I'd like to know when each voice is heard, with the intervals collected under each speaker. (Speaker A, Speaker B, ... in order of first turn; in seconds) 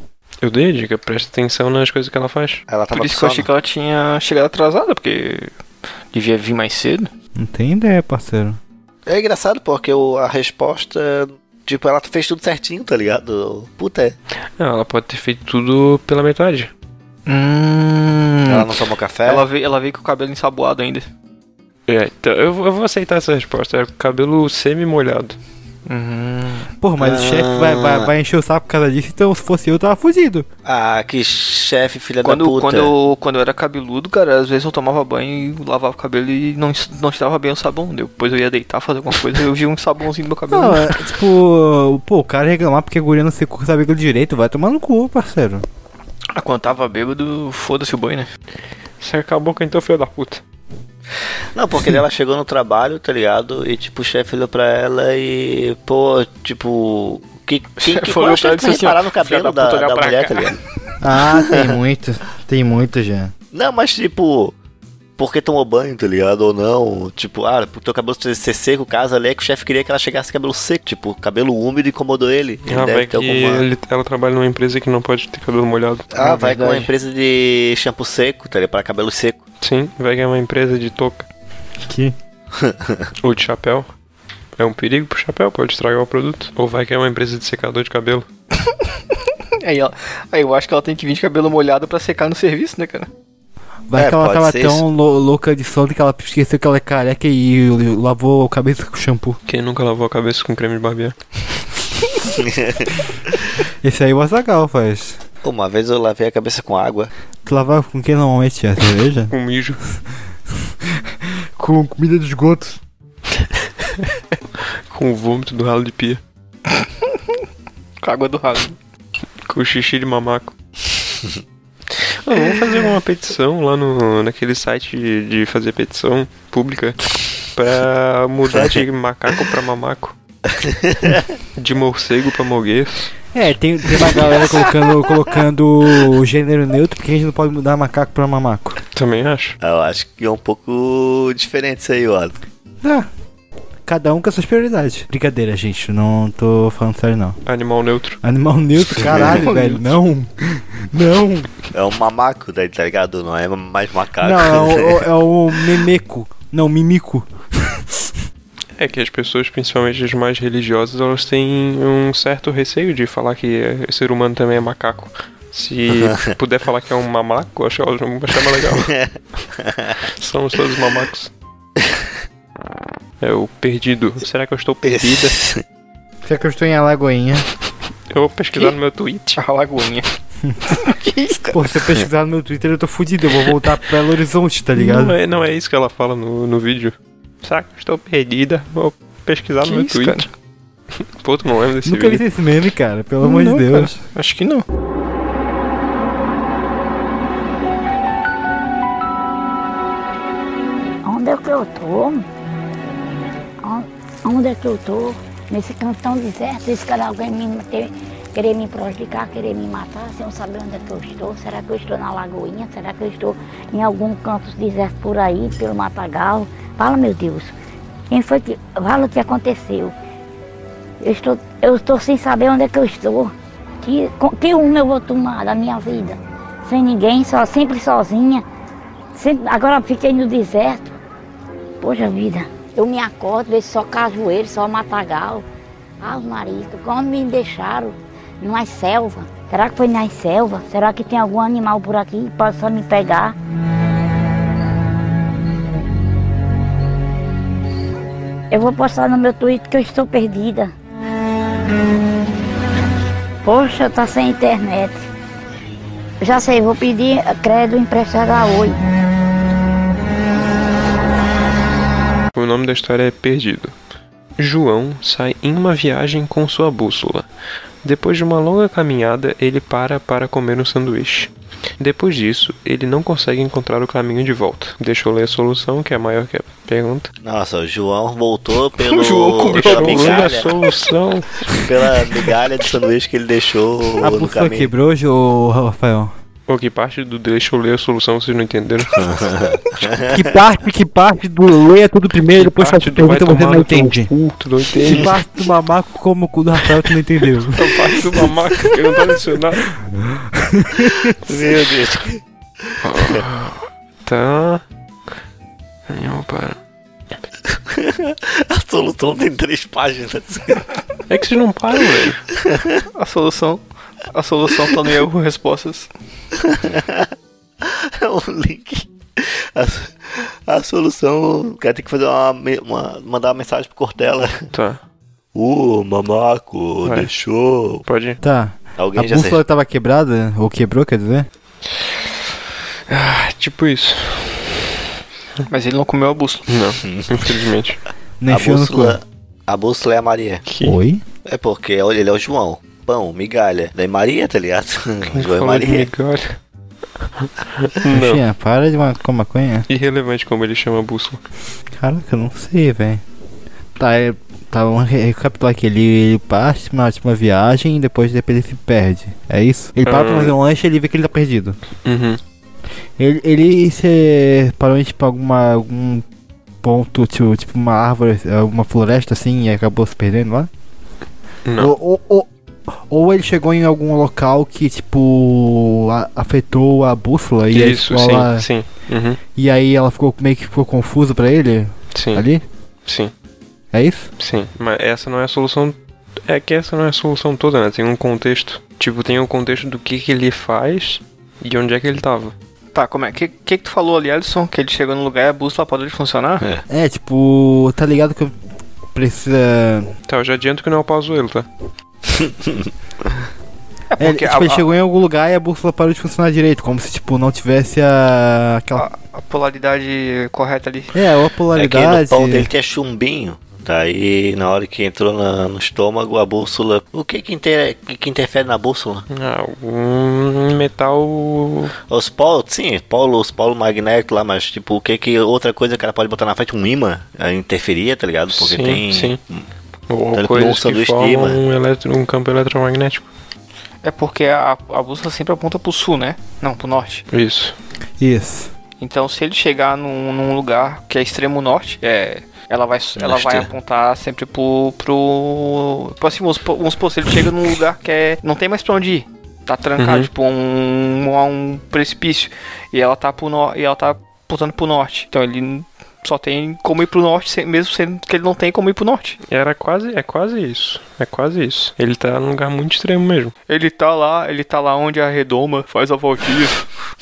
Speaker A: 0.4-2.6, 14.6-16.7, 21.9-25.4, 49.0-50.4, 72.7-76.1, 79.6-81.3, 83.2-83.9, 84.6-88.2, 99.5-101.1, 109.3-109.8, 114.9-116.2, 119.5-120.5, 122.0-130.1, 131.6-133.1, 138.9-139.6, 147.4-148.2, 158.8-168.9, 170.2-171.3, 173.2-175.4, 178.1-179.4, 184.8-190.2, 191.2-192.2, 262.3-263.7, 264.4-267.3, 267.8-277.1, 279.5-281.6, 286.5-289.0, 292.4-295.1, 297.5-299.7, 301.3-301.8, 302.8-304.6, 305.9-306.6, 311.1-312.2, 324.5-324.8, 326.8-327.1, 327.8-328.2, 332.9-334.6, 336.5-337.8, 340.5-340.8, 345.1-346.4, 347.2-348.2, 349.7-351.2, 359.8-360.3, 361.8-362.2, 371.4-371.7, 377.5-379.2, 381.9-382.2, 382.9-383.1, 384.2-392.3, 400.1-401.5, 419.1-421.7, 428.3-429.2, 429.9-433.1, 437.1-437.5, 449.8-450.1, 459.3-463.3
Speaker B: 2.7-3.5, 9.1-14.2, 18.5-19.4, 27.0-28.1, 30.6-32.9, 51.5-60.6, 63.5-64.5, 65.2-73.6, 76.1-79.4, 82.5-83.1, 94.0-94.8, 102.2-102.9, 105.4-107.1, 130.5-131.2, 139.6-142.3, 149.0-149.4, 151.7-155.0, 168.8-170.0, 174.8-175.6, 277.2-280.5, 281.5-284.7, 288.9-290.2, 301.2-303.2, 307.7-310.7, 312.5-312.8, 316.4-317.1, 317.6-324.4, 325.3-327.8, 328.8-329.4, 336.8-337.4, 338.3-340.4, 341.2-345.9, 402.2-402.7, 411.5-419.0, 421.9-429.4, 430.1-431.4, 443.0-443.5
Speaker C: 2.9-5.5, 6.1-7.1, 17.2-18.7, 19.2-21.1, 25.9-26.7, 32.2-41.0, 46.3-48.3, 57.8-60.6, 89.6-93.1, 116.8-117.2, 118.0-118.8, 149.5-149.8, 179.3-180.1, 180.7-181.6, 189.6-190.3, 193.2-194.6, 278.8-280.4, 312.9-315.9, 335.5-336.5, 392.7-396.5, 403.9-404.6, 408.7-410.9, 433.8-437.0, 438.8-459.2, 463.5-466.6
Speaker D: 7.3-8.6, 26.8-30.4, 40.5-45.6, 61.0-63.3, 76.2-76.9, 81.8-82.1, 93.9-99.4, 103.8-105.2, 107.4-109.3, 110.6-112.8, 133.3-138.8, 142.8-143.1, 143.8-147.4, 148.2-151.5, 154.2-158.1, 176.2-177.4, 181.5-185.2, 191.8-193.9, 284.0-286.1, 290.1-294.1, 294.9-298.3, 299.8-301.1, 328.2-331.3, 338.2-339.0, 340.6-341.0, 347.9-349.7, 351.8-353.0, 353.8-361.6, 363.0-366.0, 366.6-370.5, 371.6-378.5, 379.4-382.4, 383.7-384.1, 396.7-398.3, 398.9-399.9, 404.0-408.8, 410.9-412.5, 438.0-438.5
Speaker E: 201.0-202.2, 203.6-217.5, 218.1-219.9, 221.0-228.4, 229.1-230.9, 231.8-235.4, 236.0-243.3, 248.5-250.7, 253.4-255.1, 256.2-258.8